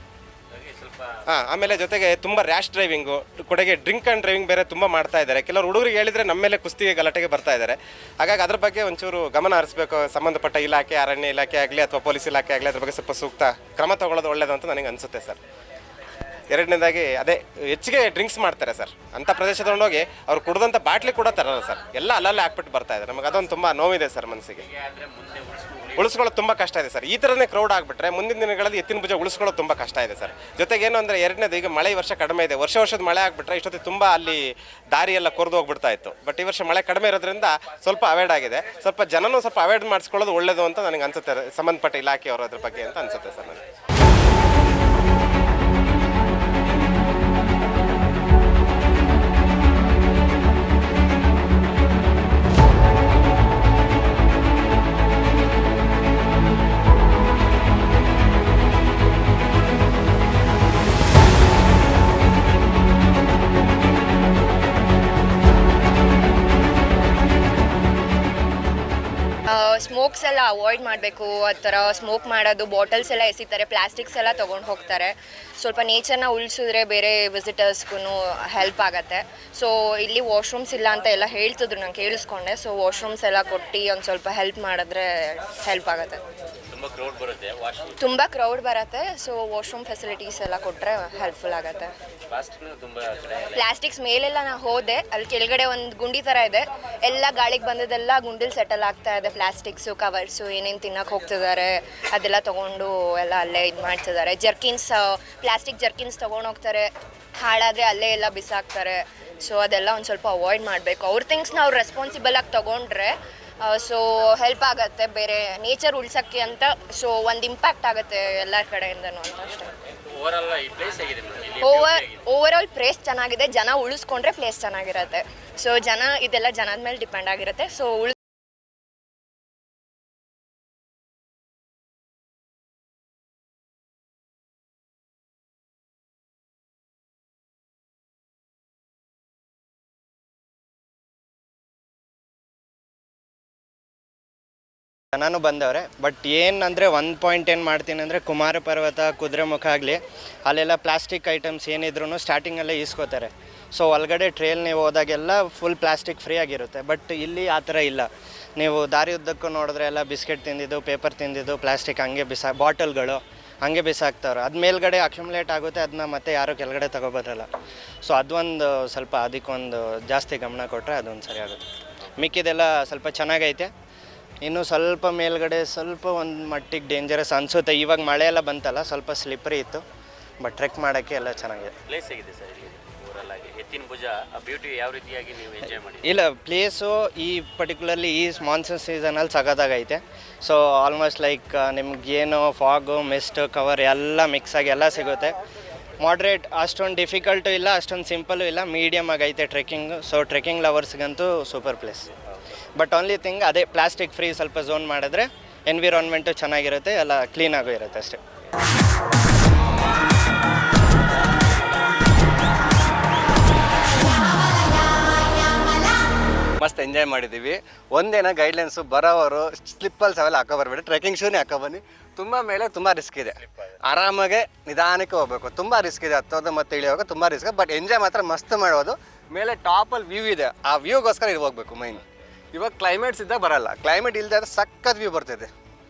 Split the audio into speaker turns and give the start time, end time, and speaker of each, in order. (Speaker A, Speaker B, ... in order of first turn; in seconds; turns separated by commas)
Speaker A: 0.5-1.1, Speaker B: 1.3-15.4, Speaker B: 16.5-24.6, Speaker A: 24.7-26.1, Speaker B: 25.9-43.6, Speaker C: 69.5-86.2, Speaker A: 86.7-88.0, Speaker C: 88.0-91.9, Speaker A: 92.3-93.6, Speaker C: 93.5-119.7, Speaker A: 120.1-122.2, Speaker C: 121.6-128.1, Speaker D: 145.1-167.5, Speaker D: 168.0-171.6, Speaker D: 172.2-173.7, Speaker D: 174.4-179.8, Speaker D: 180.4-181.7, Speaker A: 181.9-186.1, Speaker D: 186.0-195.3, Speaker D: 196.0-202.1, Speaker D: 202.8-208.2, Speaker E: 216.6-232.0, Speaker E: 232.5-235.5